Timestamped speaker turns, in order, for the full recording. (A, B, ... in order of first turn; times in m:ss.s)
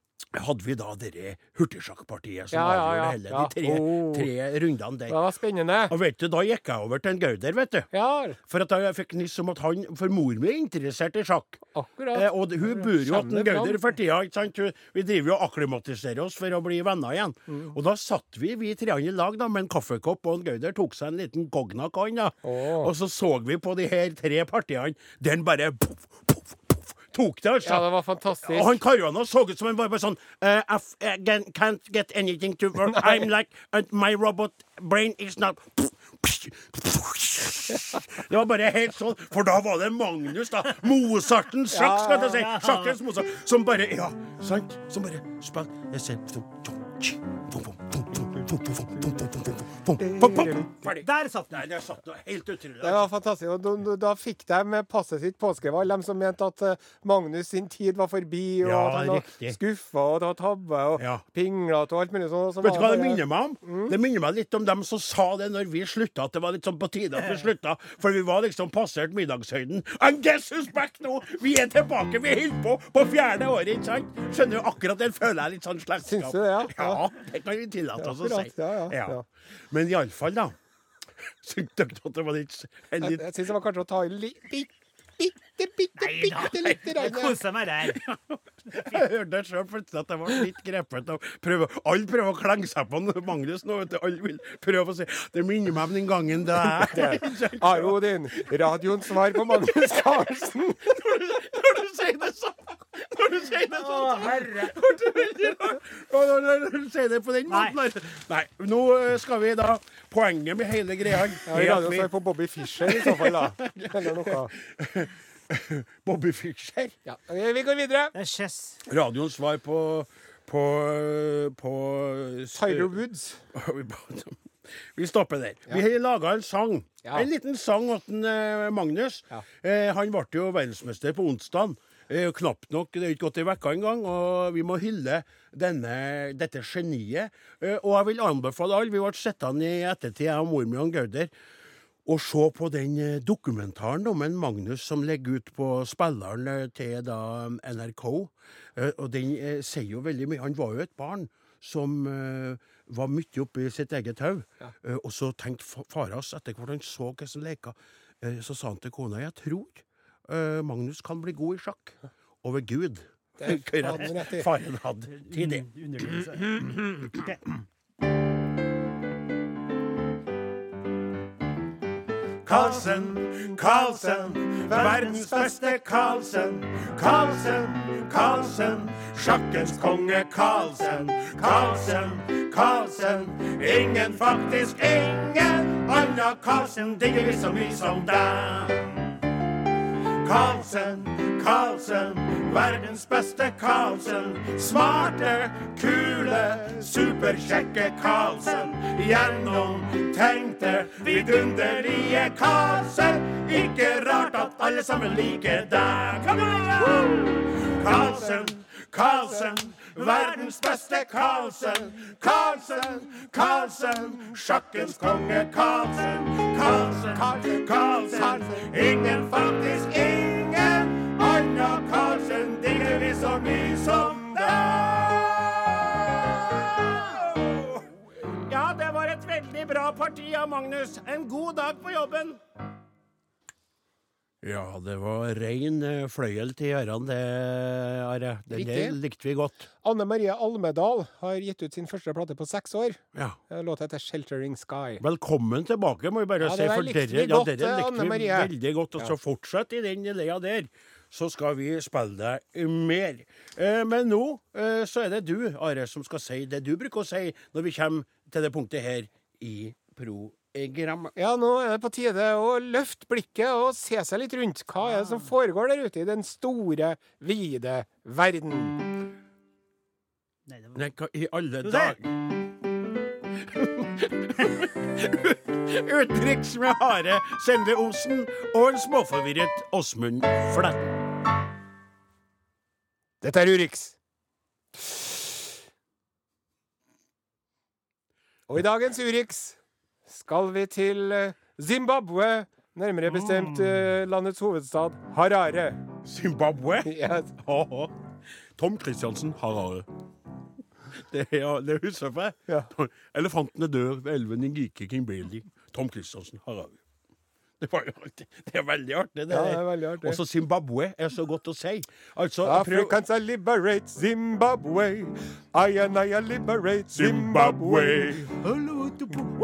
0:00.3-0:05.2 A
0:02.5-0:04.3 B
0:05.1-0:05.9 B
0:05.9-0:07.9 A
0:07.9-0:08.4 B
0:08.4-0:11.6 A
0:11.7-0:13.8 B
0:12.1-0:27.9 A
0:17.5-0:17.7 B
0:22.4-0:22.9 B
0:27.6-0:28.8 B
0:28.4-0:53.1 A
0:32.9-0:33.2 B
0:41.7-0:42.4 B
0:42.3-0:43.0 C
0:50.0-0:50.7 B
0:50.8-0:51.6 C
0:52.8-1:03.9 B
0:58.6-0:59.6 A
1:01.0-1:01.2 A
1:02.6-1:19.2 A
1:16.0-1:17.0 B
1:18.0-1:19.2 B
1:19.7-1:20.6 A
1:21.4-1:23.3 A
1:23.0-1:27.4 B
1:26.0-1:28.0 C
1:27.8-1:52.1 A
1:36.8-1:40.9 B
1:43.8-1:44.5 C
1:47.5-1:47.8 C
1:51.5-1:54.5 B
1:52.7-1:57.0 A
1:57.1-1:58.1 B
1:58.2-1:58.8 C
1:58.8-2:03.0 A
2:02.6-2:03.4 B
2:03.5-2:21.3 A
2:22.0-2:47.5 A
2:43.4-2:44.5 B
2:45.3-2:46.3 C
2:52.4-3:09.2 A
2:54.4-2:55.1 B
3:10.0-3:52.4 A
3:37.2-3:38.7 B
3:54.4-3:59.7 A
3:58.5-3:59.0 B
3:59.8-4:05.0 B
4:03.1-4:03.4 A
4:05.0-4:21.1 A
4:06.4-4:09.1 B
4:21.2-4:28.8 B
4:30.5-4:30.8 C
4:30.8-4:32.1 A
4:31.6-4:32.0 C
4:33.4-4:40.9 A
4:43.2-4:44.0 B
4:44.8-4:45.2 B
4:48.5-4:55.8 B
4:53.1-4:53.8 A
4:56.0-4:58.0 A
4:56.8-4:57.4 B
4:58.6-4:59.9 A
5:00.9-5:06.8 A
5:07.6-5:13.0 A
5:09.3-5:10.2 B
5:12.4-5:18.3 B
5:16.9-5:19.3 A